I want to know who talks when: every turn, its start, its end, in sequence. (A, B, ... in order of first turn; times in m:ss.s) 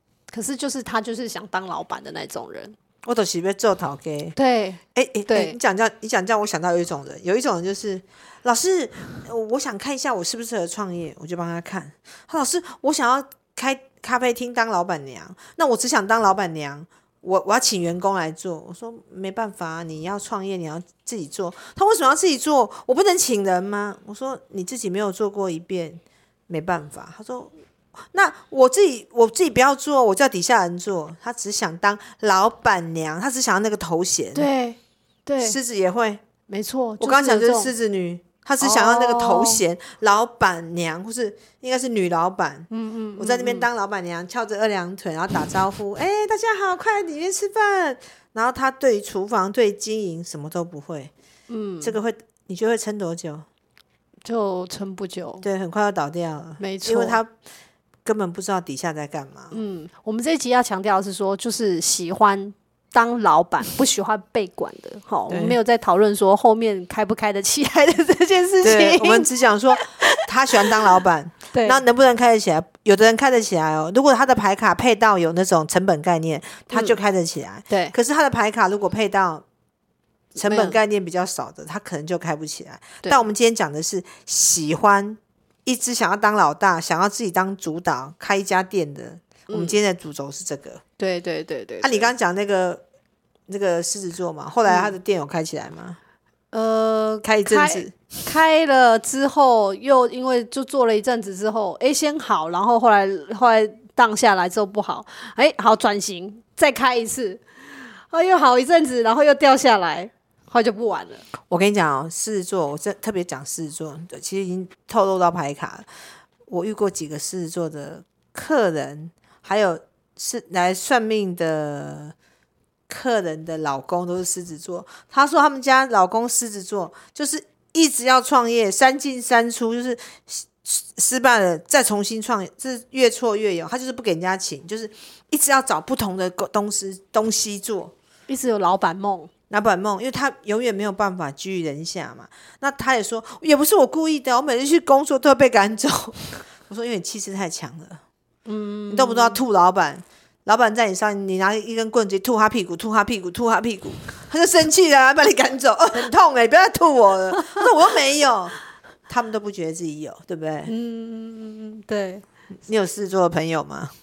0:00.3-0:02.8 A
0:03.0-0:04.3 B
0:04.4-0:05.6 A
0:04.9-0:27.5 B
0:28.1-0:34.5 B
0:34.3-0:35.6 A
0:35.4-0:36.2 B
0:36.5-0:37.7 A
0:37.0-0:51.1 B
0:38.6-0:39.6 A
0:42.7-0:43.7 A
0:51.5-0:52.0 A
0:51.8-0:53.5 B
0:54.2-0:55.4 A
0:55.4-0:57.3 B
0:56.6-0:57.2 A
0:58.0-0:59.6 B
0:59.5-1:10.8 A
1:05.3-1:05.6 B
1:08.6-1:19.4 B
1:11.5-1:11.8 A
1:16.7-1:17.0 A
1:17.7-1:17.9 A
1:20.3-1:30.8 B
1:20.4-1:20.8 A
1:29.5-1:29.8 A
1:31.0-1:32.1 A
1:31.8-1:32.8 B
1:33.5-1:36.0 B
1:34.6-1:34.9 A
1:36.5-1:47.4 A
1:37.2-1:38.2 B
1:48.1-1:51.2 A
1:51.5-1:55.8 B
1:56.5-2:02.1 B
2:02.9-2:17.9 B
2:18.3-2:19.3 A
2:19.5-2:28.0 B
2:28.4-2:29.4 A
2:28.9-2:38.6 B
2:37.4-2:37.6 A
2:39.1-2:40.7 B
2:40.6-2:42.2 A
2:42.6-2:43.9 B